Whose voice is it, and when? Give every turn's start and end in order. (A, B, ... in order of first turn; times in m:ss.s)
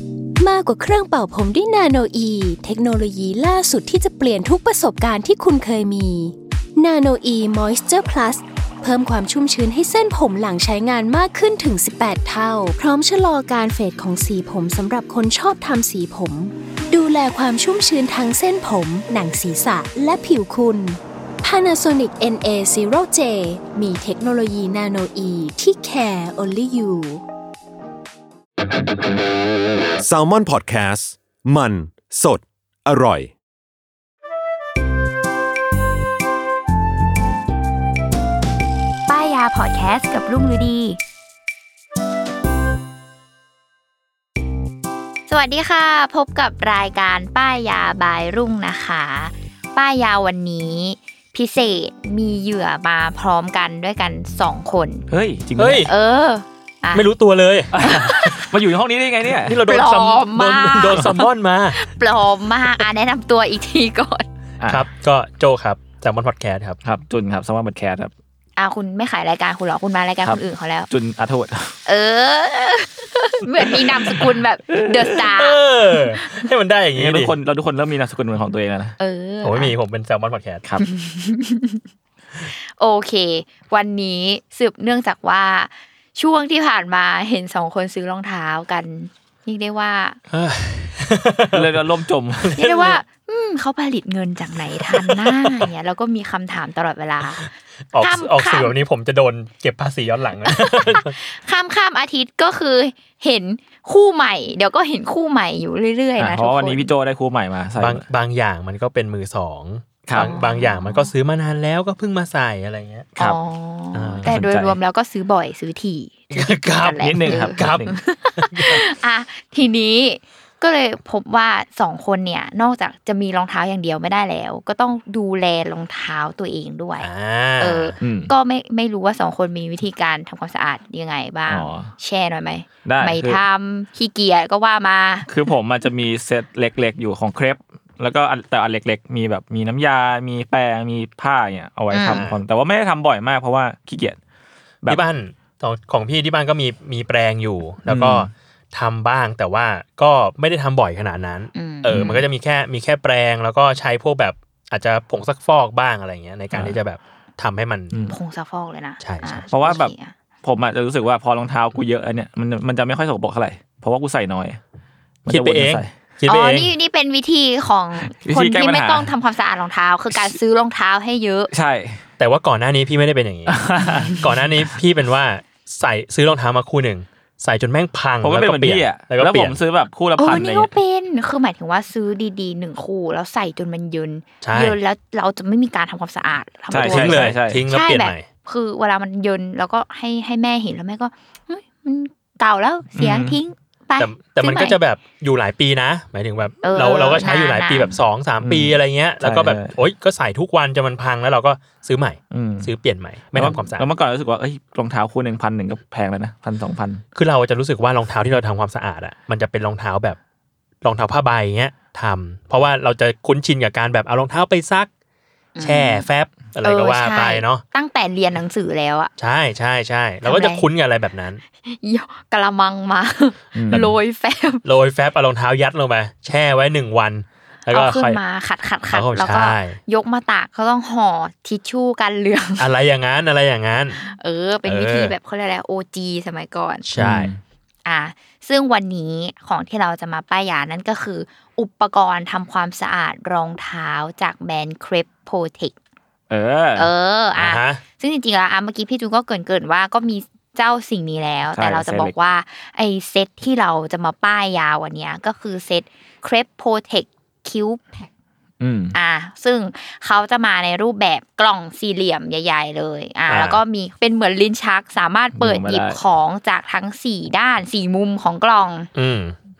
0:00.4-0:27.2 A
0:30.0-0:33.3 B
0:39.1-0:41.0 C
0:45.3-0:55.1 C
0:55.1-0:55.9 D
0:55.6-0:55.9 E
0:55.8-0:57.1 C
0:56.9-0:57.7 E
0:57.7-0:59.6 D
0:57.8-0:58.5 C
0:59.3-1:01.8 E
0:59.7-1:04.3 C
1:04.6-1:04.9 D
1:04.7-1:06.8 E
1:06.8-1:08.1 D
1:08.6-1:10.9 C
1:10.2-1:11.8 D
1:11.8-1:16.3 C
1:14.8-1:15.2 D
1:15.2-1:17.4 E
1:17.0-1:19.0 D
1:19.0-1:19.8 C
1:19.4-1:20.6 E
1:20.8-1:21.8 C
1:22.4-1:30.2 C
1:30.3-1:31.7 E
1:31.5-1:32.6 D
1:32.4-1:33.0 E
1:32.6-1:38.8 C
1:34.8-1:35.7 E
1:37.9-1:41.2 E
1:40.5-1:46.9 C
1:46.2-1:48.0 D
1:47.8-1:53.4 E
1:50.0-1:50.3 D
1:50.2-1:51.1 C
1:53.2-2:15.3 C
1:53.9-1:54.8 E
1:56.3-1:58.8 E
1:57.0-1:58.0 D
2:07.0-2:08.0 E
2:08.0-2:08.3 D
2:11.5-2:11.9 D
2:12.8-2:13.4 D
2:15.3-2:24.2 D
2:21.9-2:22.2 C
2:22.1-2:22.4 E
2:24.9-2:38.0 E
2:27.9-2:28.3 D
2:31.6-2:32.0 C
2:31.9-2:32.3 D
2:36.5-2:36.8 D
2:38.1-2:40.1 C
2:39.0-2:39.5 E
2:39.5-2:44.6 D
2:45.3-2:45.9 D
2:45.3-2:46.8 E
2:46.3-2:51.5 C
2:48.0-2:49.1 D
2:51.5-2:52.0 D
2:52.2-2:53.6 E
2:53.5-2:54.2 D
2:54.2-2:59.6 E
2:58.2-3:00.7 D
3:00.2-3:14.8 C
3:04.4-3:04.8 E
3:06.7-3:07.7 D
3:06.7-3:08.3 E
3:13.0-3:13.4 D
3:14.0-3:23.9 E
3:16.6-3:18.0 C
3:18.4-3:19.7 D
3:22.3-3:22.7 D
3:23.3-3:27.0 D
3:27.2-3:30.2 E
3:30.8-3:34.9 E
3:35.6-3:36.1 C
3:35.6-3:37.6 E
3:36.6-3:39.1 C
3:39.2-3:41.4 E
3:40.2-3:40.7 C
3:41.6-3:44.6 C
3:43.5-3:44.0 D
3:44.6-3:48.2 E
3:47.7-3:52.7 C
3:48.9-3:49.8 E
3:52.6-3:54.0 E
3:54.0-3:56.9 C
3:54.6-3:55.2 E
3:56.8-3:57.3 E
3:57.0-3:57.4 D
3:57.8-4:05.8 C
4:06.3-4:06.9 D
4:06.8-4:18.1 C
4:07.4-4:07.8 E
4:11.5-4:12.2 D
4:18.6-4:19.0 D
4:18.9-4:28.9 C
4:23.3-4:23.6 E
4:25.4-4:26.0 D
4:29.0-4:29.4 E